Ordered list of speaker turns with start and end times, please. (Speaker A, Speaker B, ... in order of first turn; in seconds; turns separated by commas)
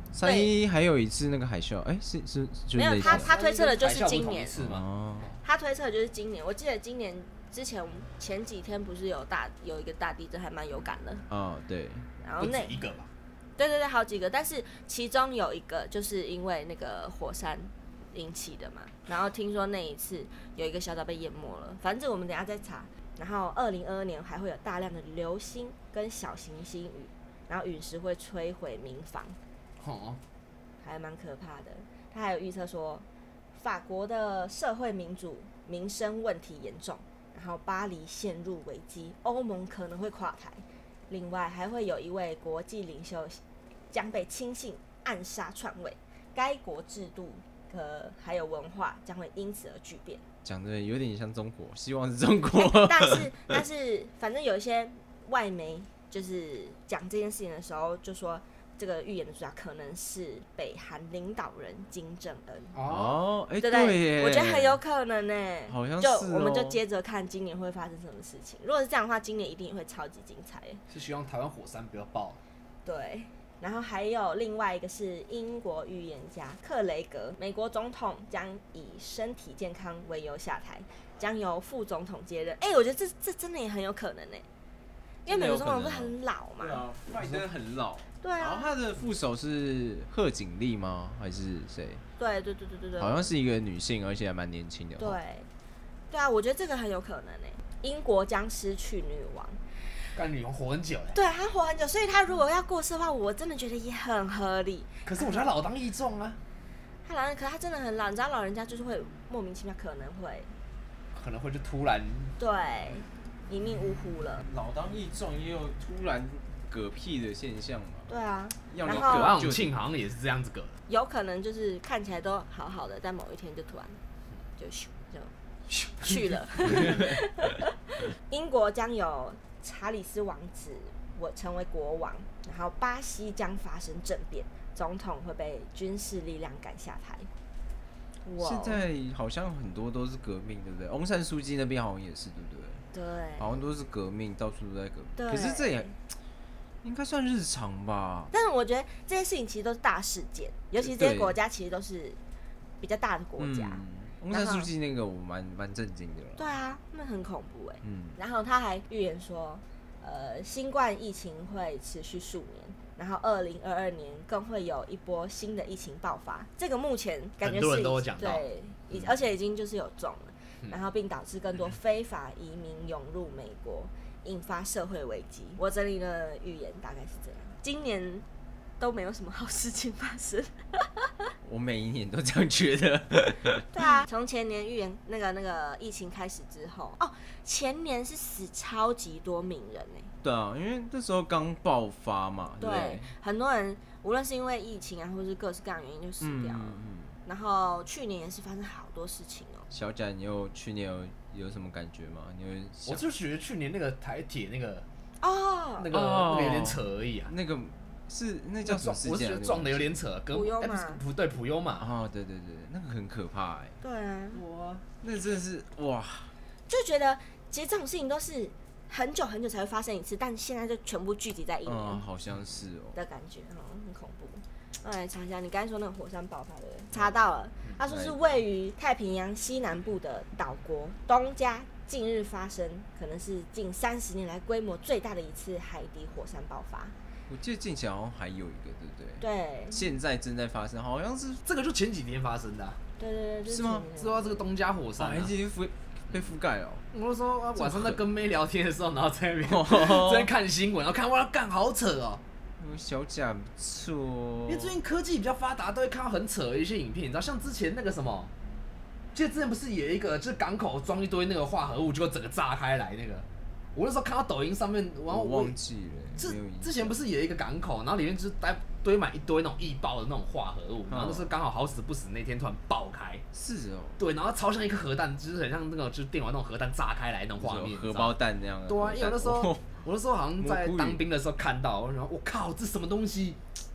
Speaker A: 0.1-3.3, Speaker B: 0.2-0.5, Speaker B: 2.7-4.6, Speaker C: 3.0-4.8, Speaker A: 4.6-5.3, Speaker B: 5.4-11.2, Speaker A: 11.3-12.1, Speaker B: 12.2-12.8, Speaker C: 12.4-13.1, Speaker B: 13.6-29.4, Speaker C: 29.8-30.2, Speaker B: 30.8-50.2, Speaker A: 50.4-53.4, Speaker B: 52.5-62.8, Speaker C: 62.7-63.2, Speaker A: 62.9-64.8, Speaker B: 63.6-70.8, Speaker A: 65.7-66.8, Speaker C: 70.9-72.4, Speaker B: 72.8-84.4, Speaker B: 85.2-86.8, Speaker A: 85.2-92.0, Speaker C: 87.1-87.4, Speaker B: 88.2-88.7, Speaker B: 92.2-93.3, Speaker A: 93.0-95.2, Speaker B: 95.0-95.5, Speaker B: 96.1-99.6, Speaker C: 100.1-101.2, Speaker B: 101.1-105.5, Speaker C: 105.0-106.4, Speaker B: 107.0-110.5, Speaker C: 111.1-112.3, Speaker B: 112.4-114.4, Speaker A: 114.4-118.1, Speaker B: 118.1-119.3, Speaker A: 118.7-119.7, Speaker C: 118.8-120.8, Speaker B: 120.9-124.0, Speaker B: 124.6-125.3, Speaker C: 125.8-126.8, Speaker B: 126.0-137.3, Speaker A: 126.8-127.1, Speaker B: 138.2-138.8, Speaker A: 138.4-142.8, Speaker B: 142.9-143.6, Speaker A: 143.4-145.9, Speaker B: 145.2-145.9, Speaker A: 146.8-148.3, Speaker B: 148.3-152.2, Speaker A: 150.8-151.4, Speaker B: 152.8-154.7, Speaker A: 153.4-156.5, Speaker B: 156.4-178.2, Speaker A: 157.8-158.2, Speaker C: 167.4-168.4, Speaker B: 178.8-181.3, Speaker A: 181.4-183.7, Speaker B: 183.7-190.1, Speaker A: 190.2-193.1, Speaker B: 192.6-199.7, Speaker A: 196.2-197.2, Speaker A: 199.7-203.0, Speaker C: 202.8-204.8, Speaker B: 205.2-205.9, Speaker C: 205.8-207.3, Speaker A: 205.9-209.9, Speaker C: 208.6-211.9, Speaker B: 210.3-211.0, Speaker A: 211.8-213.8, Speaker B: 213.8-214.4, Speaker C: 214.3-214.8, Speaker A: 215.0-216.3, Speaker B: 216.7-222.0, Speaker A: 221.7-223.0, Speaker B: 222.9-236.9, Speaker A: 227.9-228.4, Speaker A: 237.3-241.4, Speaker B: 239.2-239.9, Speaker C: 241.4-242.8, Speaker B: 243.0-244.4, Speaker A: 243.5-243.9, Speaker C: 244.0-245.3, Speaker A: 245.0-246.8, Speaker C: 246.9-252.2, Speaker A: 247.6-248.0, Speaker A: 249.4-250.3, Speaker A: 252.6-254.8, Speaker C: 254.5-258.3, Speaker C: 259.1-265.5, Speaker A: 265.1-267.0, Speaker C: 266.2-273.2, Speaker A: 270.9-271.3, Speaker A: 273.3-274.0, Speaker C: 274.0-278.1, Speaker A: 277.4-279.6, Speaker C: 278.7-283.4, Speaker A: 280.4-281.0